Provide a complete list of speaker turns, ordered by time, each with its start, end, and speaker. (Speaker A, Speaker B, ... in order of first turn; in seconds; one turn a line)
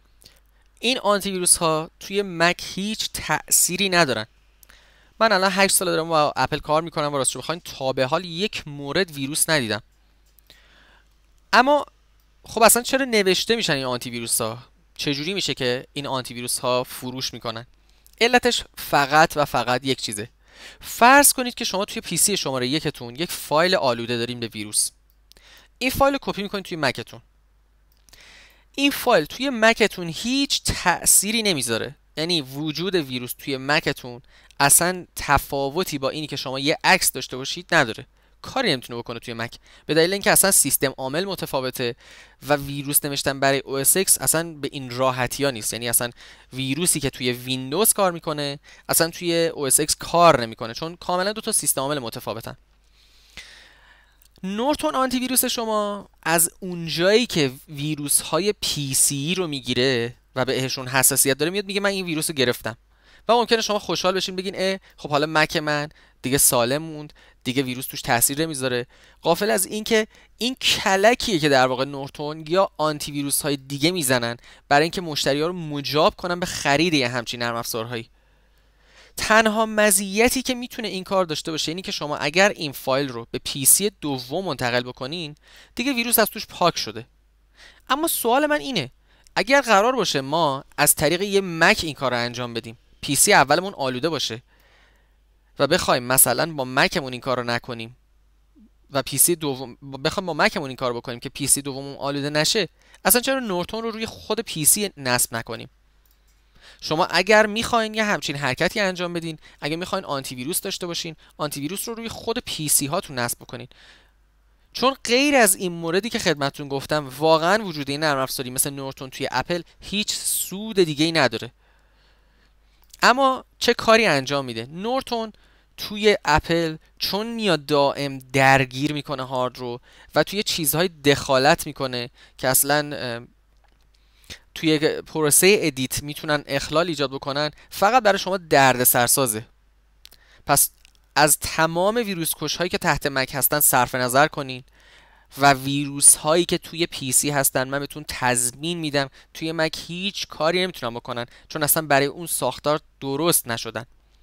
Speaker A: 0.8-4.3
Speaker A: 5.2-9.8
Speaker A: 11.5-11.8
Speaker A: 12.4-17.7
Speaker A: 18.2-24.9
Speaker A: 25.8-27.2
Speaker A: 28.8-52.6
Speaker A: 54.4-78.1
Speaker A: 79.2-87.1
Speaker A: 87.9-94.4
Speaker A: 95.6-98.0
Speaker A: 98.9-105.7
Speaker A: 106.8-113.7
Speaker A: 114.7-121.5
Speaker A: 123.0-133.3
Speaker A: 134.5-139.5
Speaker A: 140.4-144.7
Speaker A: 145.3-153.9